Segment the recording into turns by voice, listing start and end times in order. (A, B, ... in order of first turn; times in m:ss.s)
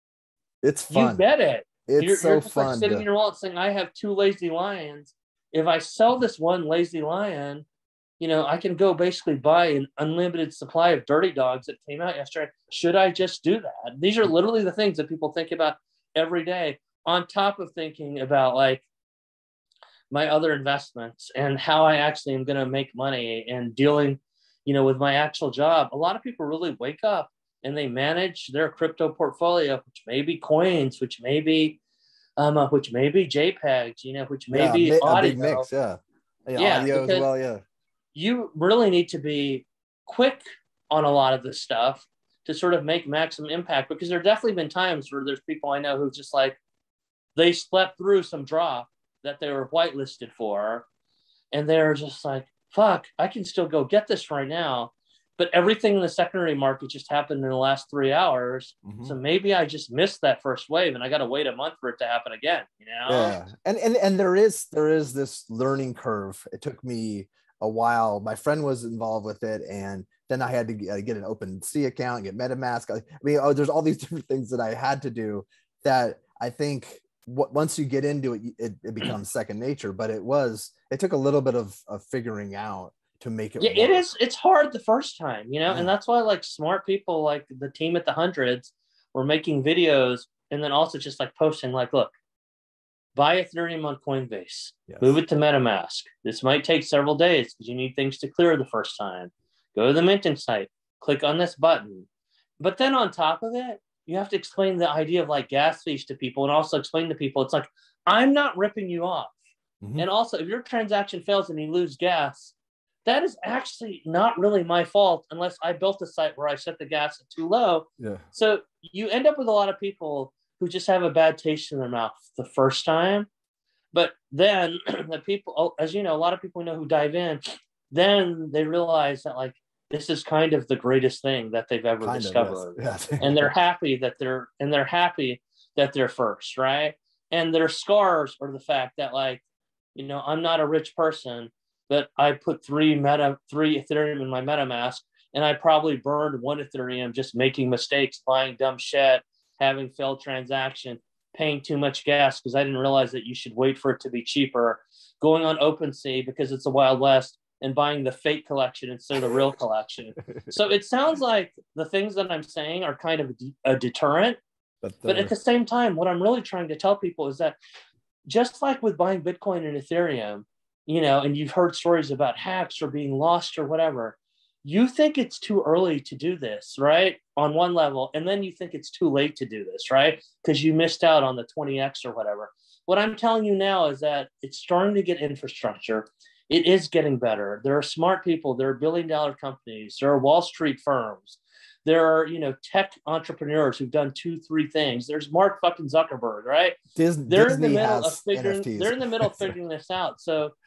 0:00.6-0:01.2 A
0:00.9-0:07.6 B
0:01.9-0:03.0 A
0:08.2-0:18.8 B
0:20.1-0:31.8 B
0:32.4-0:35.7 B
0:34.5-0:37.6 A
0:36.6-0:37.3 B
0:38.1-0:46.6 B
0:47.4-0:50.9 B
0:51.5-1:03.4 B
0:58.8-0:59.2 A
1:03.1-1:24.1 A
1:23.6-1:32.1 B
1:33.2-1:42.1 B
1:34.9-1:35.2 A
1:42.6-1:49.4 B
1:49.8-1:50.1 A
1:50.0-2:03.3 B
2:03.9-2:19.4 B
2:12.0-2:13.5 A
2:19.9-2:44.4 B
2:44.8-2:45.3 A
2:45.1-2:47.6 B
2:48.3-3:16.8 B
3:17.0-3:19.5 A
3:17.3-3:20.6 B